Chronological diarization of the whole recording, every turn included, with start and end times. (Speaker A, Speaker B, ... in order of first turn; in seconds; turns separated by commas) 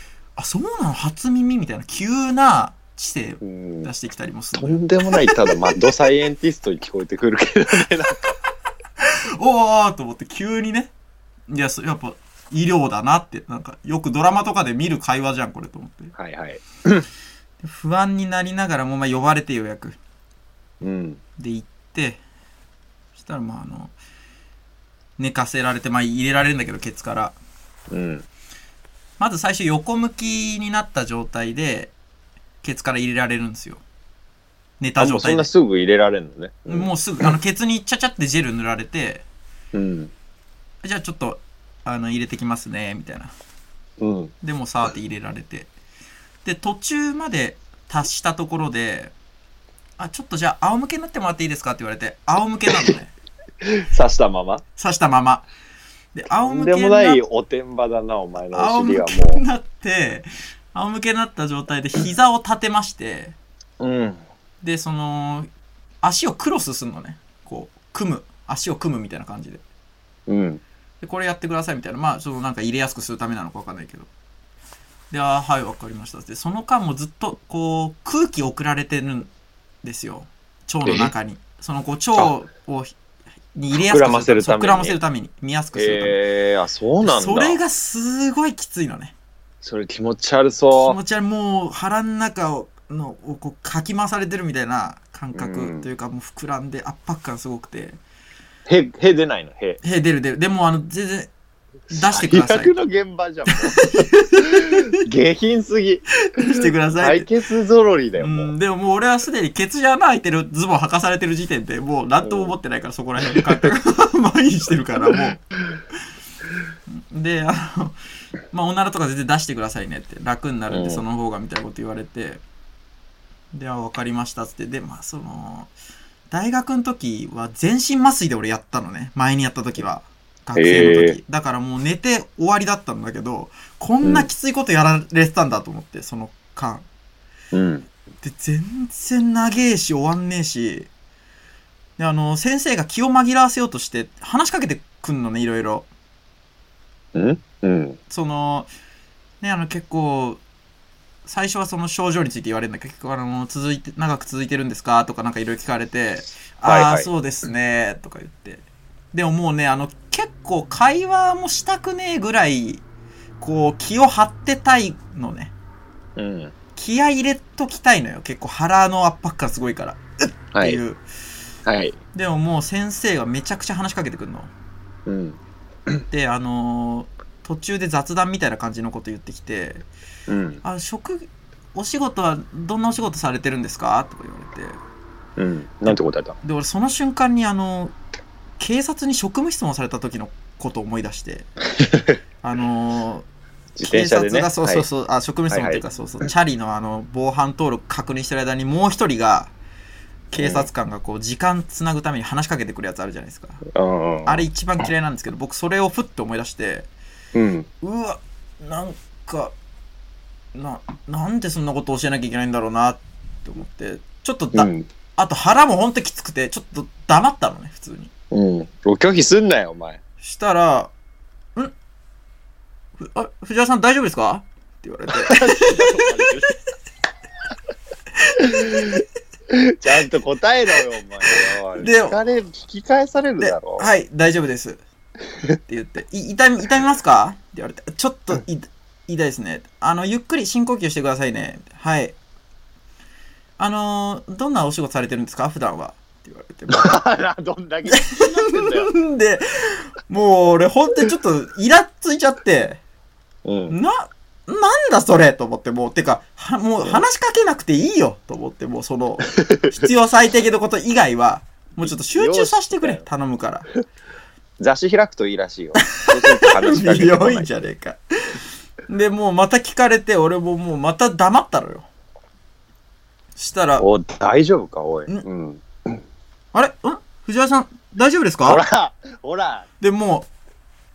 Speaker A: 0.3-5.7, Speaker B: 3.4-3.9, Speaker B: 4.5-8.3, Speaker A: 9.0-10.9, Speaker A: 11.5-16.1, Speaker B: 16.1-17.1, Speaker A: 17.6-20.0, Speaker B: 20.8-21.2, Speaker A: 21.4-22.2, Speaker A: 23.1-23.9, Speaker A: 25.2-27.4, Speaker B: 27.9-28.2, Speaker A: 29.2-31.9, Speaker A: 32.6-33.8, Speaker A: 34.8-35.5, Speaker B: 35.0-37.3, Speaker A: 36.7-39.2, Speaker B: 39.7-40.1, Speaker A: 40.8-43.3, Speaker B: 44.0-44.3, Speaker A: 44.4-45.7, Speaker A: 46.4-49.1, Speaker A: 50.0-53.1, Speaker B: 53.6-54.6, Speaker A: 54.8-55.5, Speaker A: 56.1-57.2, Speaker B: 56.4-59.4, Speaker A: 58.5-63.4, Speaker B: 63.8-64.2, Speaker A: 64.6-65.5, Speaker A: 66.0-69.6, Speaker B: 70.3-70.6, Speaker A: 71.0-74.1, Speaker A: 75.1-79.3, Speaker A: 79.8-82.9, Speaker B: 80.8-81.1, Speaker A: 83.5-86.2, Speaker B: 83.7-85.0, Speaker B: 85.7-87.6, Speaker A: 87.0-89.1, Speaker B: 89.6-91.0, Speaker A: 90.7-98.0, Speaker B: 95.3-95.9, Speaker B: 98.7-99.8, Speaker A: 99.8-101.3, Speaker A: 101.9-102.7, Speaker B: 101.9-106.0, Speaker A: 103.5-104.9, Speaker A: 106.3-107.3, Speaker B: 107.0-108.5, Speaker A: 108.2-115.4, Speaker B: 112.2-112.5, Speaker A: 116.9-118.0, Speaker A: 118.5-122.4, Speaker B: 120.7-121.0, Speaker A: 123.5-125.7, Speaker A: 126.3-136.9, Speaker B: 130.5-131.2, Speaker B: 134.0-134.3, Speaker B: 137.5-137.9, Speaker A: 138.2-140.9, Speaker A: 142.0-145.9, Speaker B: 147.1-148.0, Speaker A: 148.1-148.7, Speaker A: 149.4-150.4, Speaker A: 151.2-162.8, Speaker B: 156.6-157.1, Speaker A: 163.4-165.5, Speaker B: 166.2-166.5, Speaker A: 166.8-171.0, Speaker B: 170.5-170.8, Speaker B: 171.7-172.0, Speaker A: 172.1-174.5, Speaker B: 175.1-175.4, Speaker A: 176.1-179.8, Speaker B: 180.3-180.6, Speaker A: 180.6-184.8, Speaker B: 185.4-186.3, Speaker A: 185.8-187.9, Speaker A: 188.6-191.5, Speaker B: 191.8-192.2, Speaker A: 192.4-193.2, Speaker B: 193.8-194.8, Speaker A: 193.8-199.5, Speaker B: 195.5-195.8, Speaker A: 200.3-203.6, Speaker B: 200.4-200.7, Speaker B: 203.7-204.4, Speaker A: 204.2-206.9, Speaker B: 207.3-207.7, Speaker A: 207.8-209.5, Speaker A: 210.5-218.1, Speaker B: 214.5-214.9, Speaker B: 218.3-220.0, Speaker A: 220.2-220.9, Speaker A: 223.0-226.3, Speaker B: 225.1-226.5, Speaker A: 228.3-229.0, Speaker B: 228.4-233.8, Speaker A: 231.8-232.2, Speaker A: 233.4-234.8, Speaker A: 235.7-242.2, Speaker A: 243.6-247.0, Speaker B: 246.7-248.9, Speaker A: 247.9-252.8, Speaker B: 253.4-253.8, Speaker A: 253.7-263.7, Speaker B: 259.4-259.6, Speaker B: 261.8-263.0, Speaker B: 264.6-267.5, Speaker A: 265.9-268.0, Speaker A: 268.9-271.9, Speaker A: 273.4-273.9, Speaker B: 273.8-276.0, Speaker A: 276.5-278.6, Speaker B: 278.4-279.7, Speaker A: 279.8-280.3